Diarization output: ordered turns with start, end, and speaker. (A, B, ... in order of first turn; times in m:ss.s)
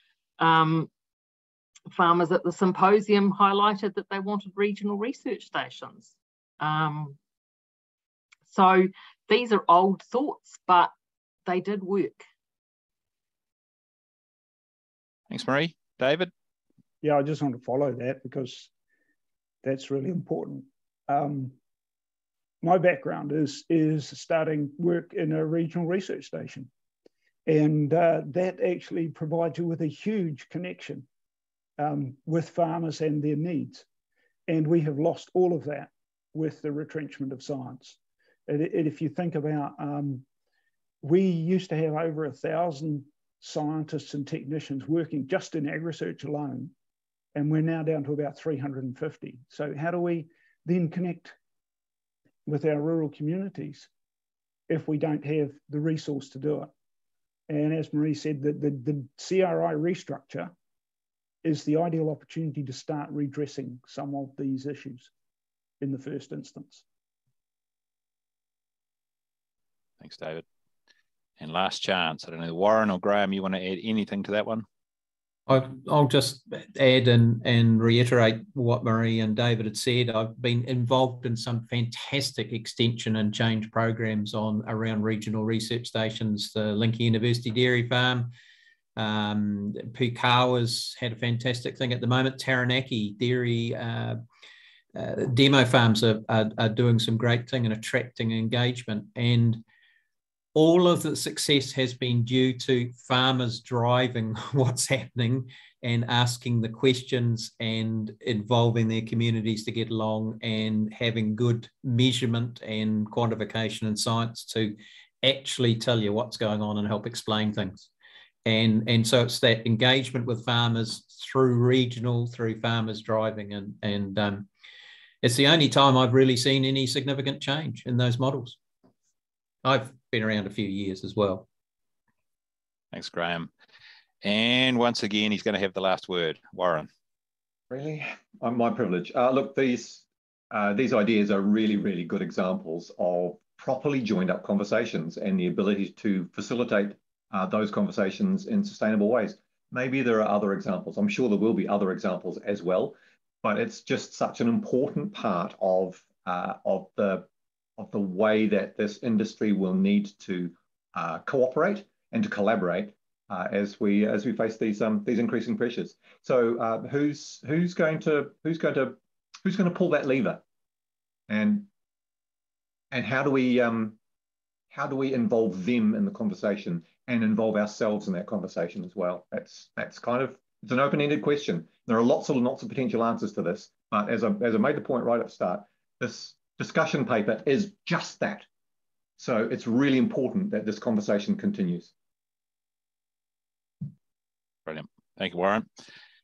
0:00.4-0:00.9 A
0:01.9-0:07.2 A
0:08.4-0:10.9 A
0:11.4-0:12.2 A
0:15.3-0:16.3 B
0:17.0-0:18.7 C
0:19.6-0:21.6 C
0:22.6-0:26.7 C
0:27.4-0:31.1 C
0:31.8-0:33.8 C
0:34.5-0:40.2 C
0:41.0-0:46.7 C
0:47.3-0:51.4 C
0:52.4-0:53.9 C
0:54.7-0:56.7 C
0:57.5-1:00.5 C
1:01.4-1:05.1 C
1:05.8-1:06.8 C
1:10.0-1:10.4 B
1:11.4-1:14.6 B
1:15.5-1:28.3 D
1:29.0-1:34.2 D
1:34.9-1:39.6 D
1:40.5-1:57.9 D
1:58.4-2:04.5 D
2:05.2-2:08.6 D
2:09.6-2:11.4 D
2:12.9-2:13.5 B
2:14.2-2:16.9 B
2:17.7-2:50.4 E
2:51.3-2:51.7 E
2:52.9-2:54.0 E
2:54.7-3:08.4 E
3:09.2-3:11.9 E
3:14.6-3:15.7 B